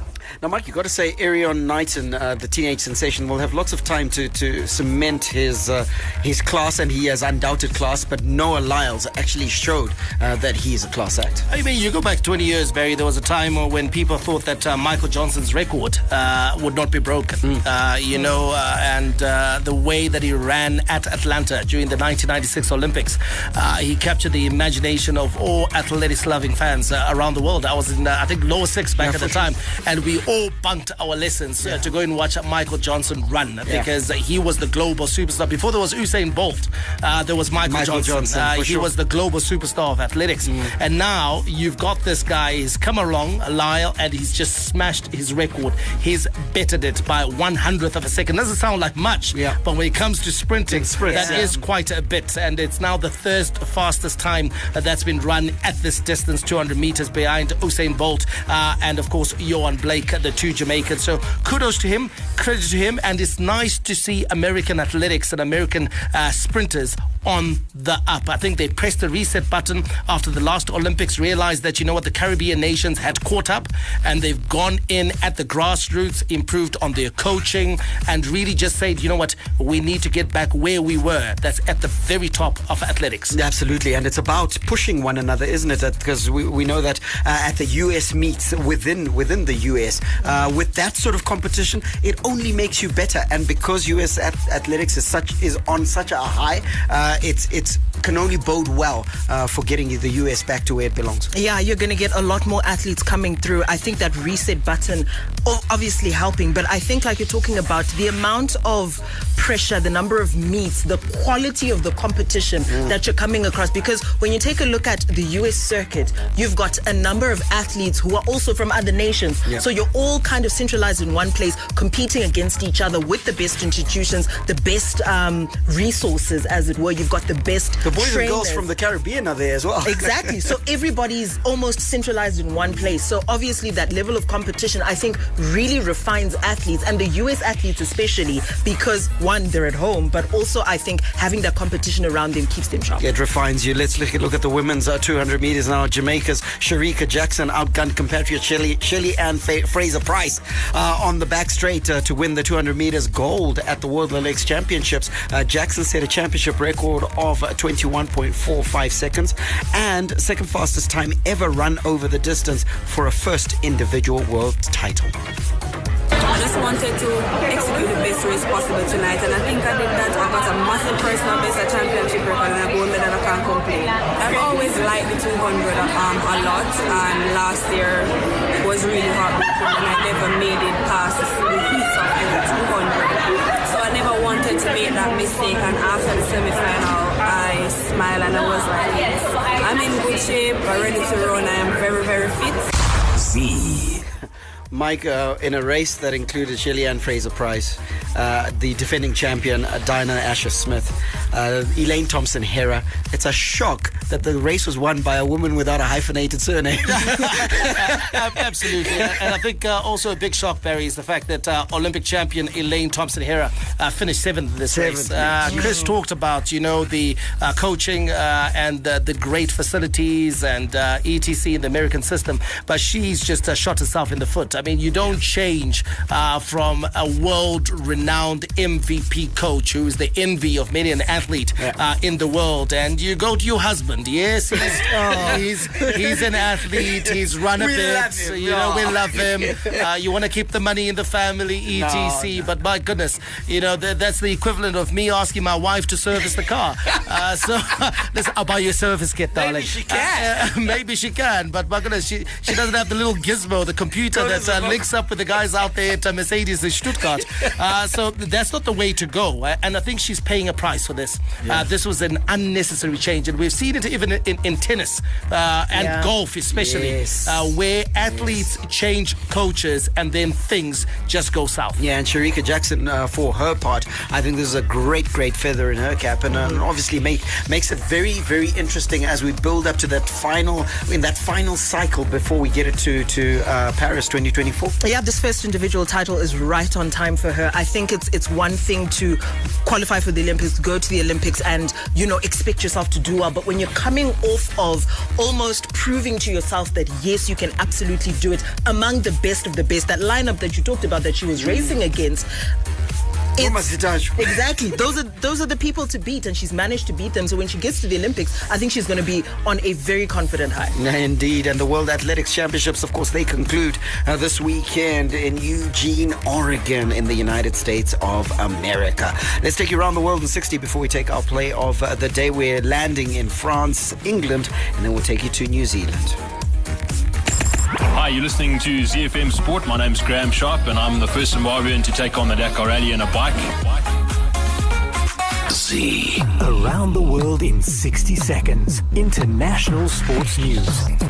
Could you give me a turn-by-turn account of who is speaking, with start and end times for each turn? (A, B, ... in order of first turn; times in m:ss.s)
0:00.4-0:11.4 A
0:11.5-1:23.4 B
0:29.0-0:29.5 A
0:37.6-0:38.9 A
0:40.4-0:40.7 A
0:49.3-0:49.6 A
0:50.7-0:51.6 A
1:23.3-1:41.3 A
1:41.3-2:08.6 C
1:52.7-1:53.0 A
2:07.8-2:10.3 A
2:09.8-2:23.0 C
2:23.0-2:45.2 A
2:46.2-3:12.7 D
3:14.7-3:29.2 A
3:27.0-4:31.8 B
3:34.7-3:35.9 A
3:54.5-3:59.8 A
4:01.7-4:02.5 A
4:09.3-4:10.8 A
4:14.1-4:14.8 A
4:25.7-4:27.4 A
4:28.0-4:28.4 A
4:31.8-4:44.8 A
4:44.8-5:02.3 C
5:01.4-5:01.8 A
5:03.4-5:03.6 C
5:03.4-5:04.5 A
5:04.2-5:10.8 C
5:10.8-5:26.2 A
5:27.9-5:33.5 E
5:35.7-5:36.2 E
5:36.2-5:40.9 F